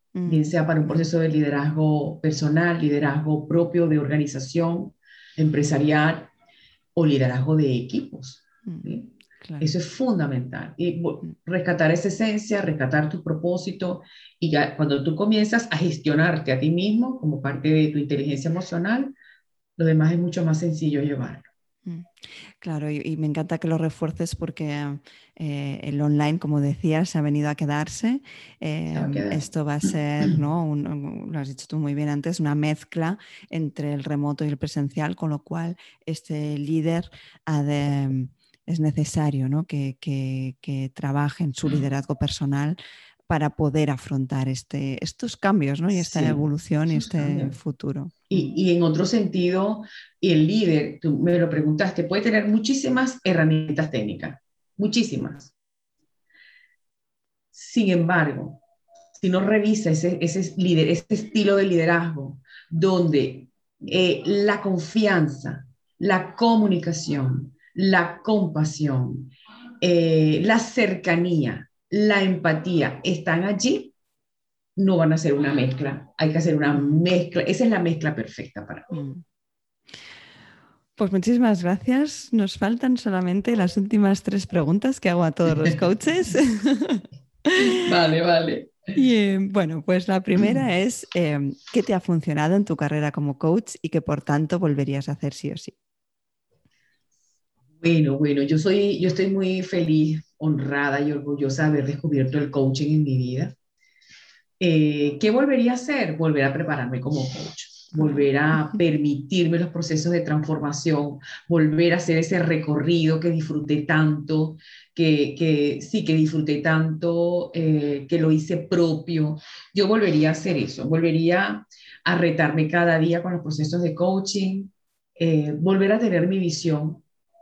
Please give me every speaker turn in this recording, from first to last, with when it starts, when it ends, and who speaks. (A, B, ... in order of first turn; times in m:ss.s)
0:00.1-0:01.1 A
0:00.2-0:06.3 B
0:06.9-0:09.1 B
0:08.6-0:09.7 A
0:09.6-0:19.1 B
0:19.8-0:21.5 B
0:21.8-0:42.8 A
0:28.9-0:29.4 B
0:43.3-0:48.5 A
0:45.9-0:47.6 B
0:48.3-0:55.5 B
0:57.5-0:58.6 B
0:59.2-1:13.9 B
1:14.8-1:18.9 B
1:16.7-1:17.1 A
1:18.9-1:19.2 A
1:21.0-1:27.6 A
1:27.6-1:28.9 B
1:28.9-1:35.8 A
1:37.8-1:43.5 B
1:44.6-2:07.0 B
1:47.9-1:48.3 A